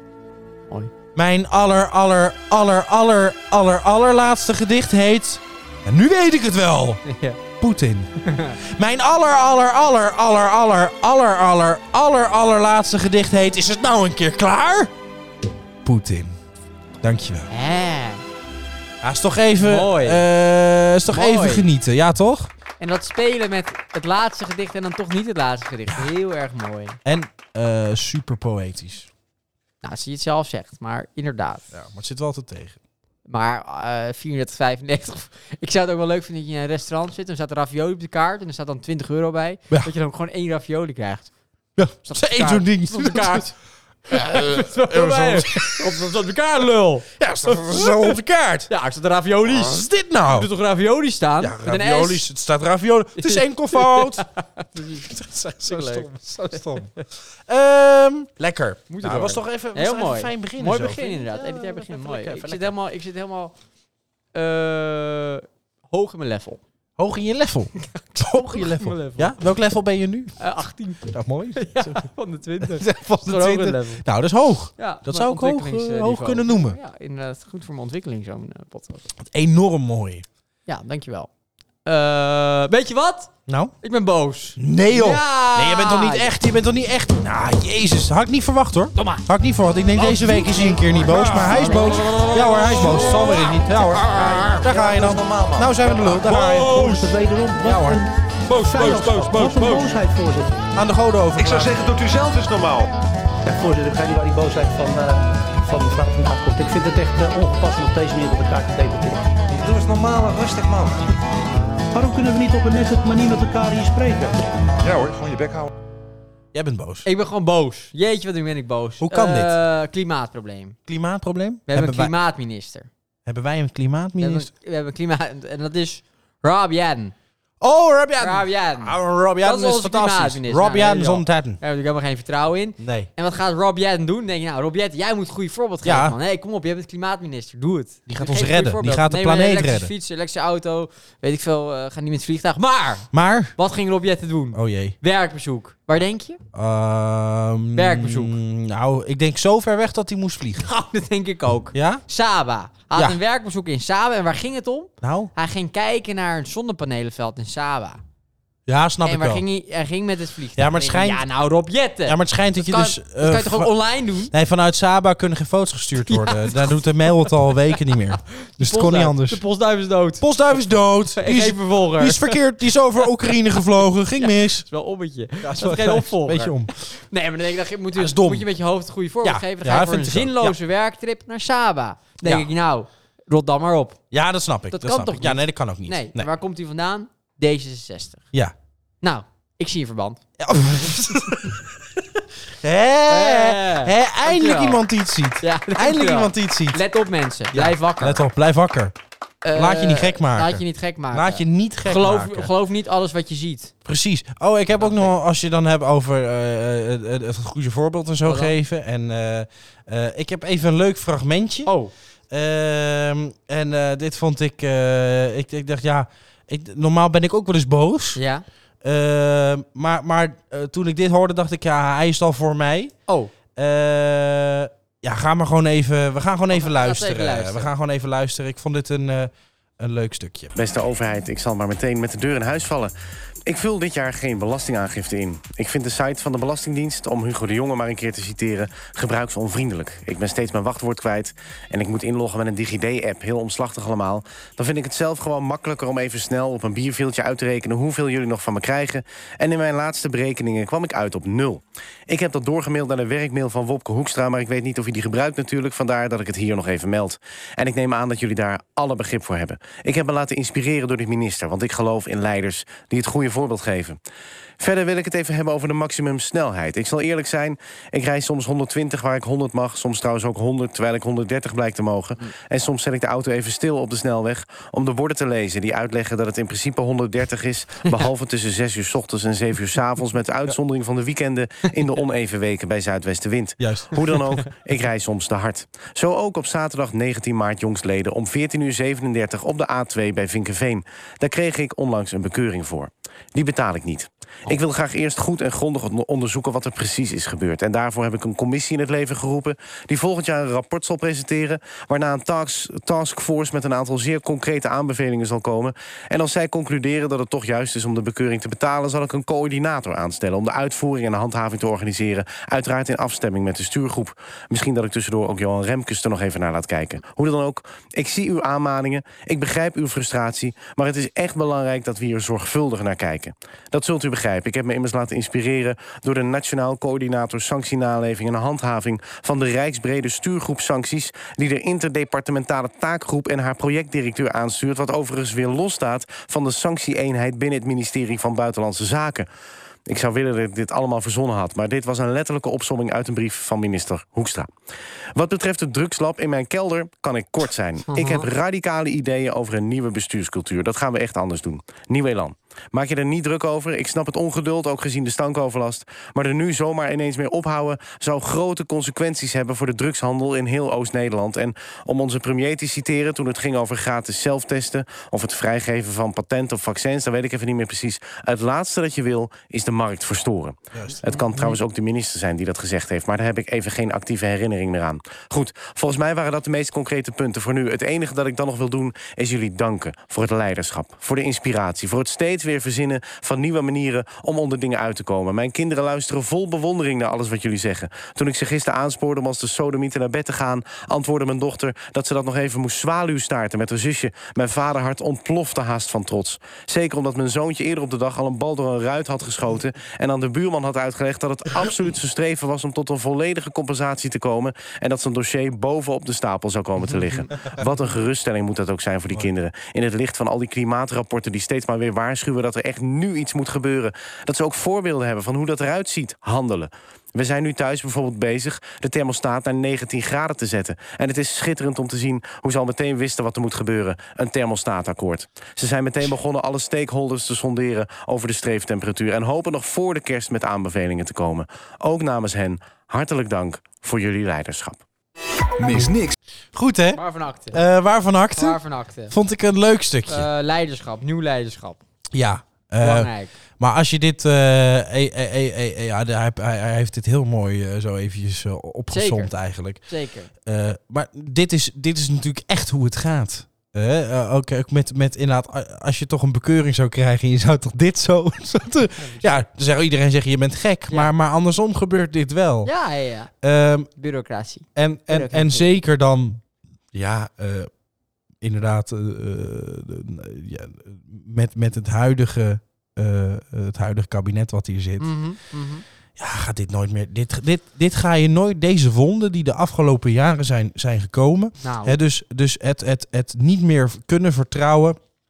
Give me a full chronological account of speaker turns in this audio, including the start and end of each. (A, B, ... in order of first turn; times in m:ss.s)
0:01.2-0:07.0 A
0:07.0-0:07.4 B
0:07.6-0:08.1 A
0:08.2-0:08.6 B
0:08.6-0:14.9 A
0:15.8-0:16.4 A
0:17.0-0:17.5 A
0:17.5-0:18.2 B
0:19.0-0:22.5 A
0:19.6-0:20.2 B
0:21.1-0:21.7 B
0:22.8-0:27.0 B
0:27.0-0:29.1 A
0:29.8-0:31.7 B
0:31.7-0:32.8 A
0:33.2-0:41.3 B
0:41.8-0:43.5 A
0:42.0-0:43.5 B
0:44.1-0:46.0 A
0:44.1-0:48.2 B
0:47.2-0:48.7 A
0:48.7-0:52.3 B
0:49.5-0:50.5 A
0:51.4-0:56.9 A
0:53.2-0:57.0 B
0:57.5-1:02.8 A
0:58.9-1:03.5 B
1:04.3-1:06.6 B
1:07.0-1:10.4 A
1:07.8-1:09.4 B
1:10.4-1:14.0 B
1:11.1-1:12.1 A
1:12.6-1:16.8 A
1:14.8-1:19.1 B
1:19.2-1:20.2 A
1:20.7-1:21.3 B
1:21.8-1:26.3 B
1:23.5-1:23.8 A
1:24.6-1:37.0 A
1:30.1-1:32.3 C
1:31.6-1:32.0 B
1:34.0-1:37.1 C
1:36.5-1:40.7 D
1:37.6-1:38.0 A
1:38.4-1:40.0 C
1:40.8-1:41.9 A
1:41.4-1:42.9 C
1:43.4-1:49.4 D
1:49.5-1:51.1 C
1:51.9-1:54.4 D
1:54.8-1:55.7 C
1:56.5-1:57.1 A
1:57.0-2:00.8 B
1:59.0-1:59.6 A
2:00.9-2:02.1 A
2:01.7-2:02.9 B
2:03.2-2:04.5 A
2:04.2-2:07.1 B
2:07.6-2:11.6 A
2:08.2-2:26.4 B
2:12.8-2:13.1 A
2:15.8-2:16.2 A
2:18.1-2:19.9 A
2:23.1-2:23.6 A
2:24.5-2:25.0 A
2:26.5-2:30.7 A
2:27.7-2:28.4 B
2:30.6-2:38.0 B
2:31.7-2:32.0 A
2:32.9-2:33.2 A
2:35.0-2:35.3 A
2:38.7-2:39.4 A
2:39.0-2:44.3 B
2:40.6-2:41.3 A
2:42.1-2:43.7 A
2:44.3-2:49.4 A
2:46.1-2:47.3 B
2:47.9-2:52.4 B
2:50.2-2:54.7 A
2:53.0-2:53.3 B
2:54.2-3:04.0 B
2:55.4-2:56.8 A
2:57.9-2:58.5 A
2:59.2-3:00.6 A
3:02.2-3:02.5 A
3:04.1-3:06.3 A
3:04.7-3:08.3 B
3:09.0-3:10.2 B
3:10.4-3:16.8 A
3:13.1-3:14.8 B
3:15.4-3:18.2 B
3:17.5-3:19.0 A
3:19.4-3:23.7 B
3:19.5-3:22.5 A
3:23.8-3:31.7 A
3:24.8-3:25.1 B
3:28.2-3:28.5 B
3:31.7-3:31.9 B
3:32.3-3:38.2 A
3:38.2-3:38.4 B
3:38.8-3:43.0 A
3:43.1-3:43.3 B
3:43.6-3:50.5 A
3:46.5-3:47.7 B
3:50.6-3:52.9 E
3:53.5-4:24.0 E
4:24.6-5:39.3 E
4:43.6-4:44.4 A
5:39.9-5:44.5 E
5:45.2-7:14.8 E
5:47.9-5:48.3 B
6:11.0-6:11.5 B
6:46.8-6:47.7 A
7:15.6-7:16.2 C
7:16.5-7:20.3 A
7:16.9-7:17.6 B
7:18.4-7:19.1 B
7:20.1-7:21.8 B
7:22.1-7:29.8 A
7:22.8-7:23.3 B
7:28.9-7:29.3 B
7:29.9-7:30.3 B
7:30.4-7:42.7 A
7:39.0-7:39.4 B
7:42.6-7:43.3 B
7:43.4-7:43.9 A
7:44.0-7:45.7 B
7:44.8-7:46.4 A
7:46.9-7:47.7 A
7:48.4-7:55.1 A
7:55.0-7:55.8 B
7:56.2-8:05.0 A
8:01.6-8:02.0 B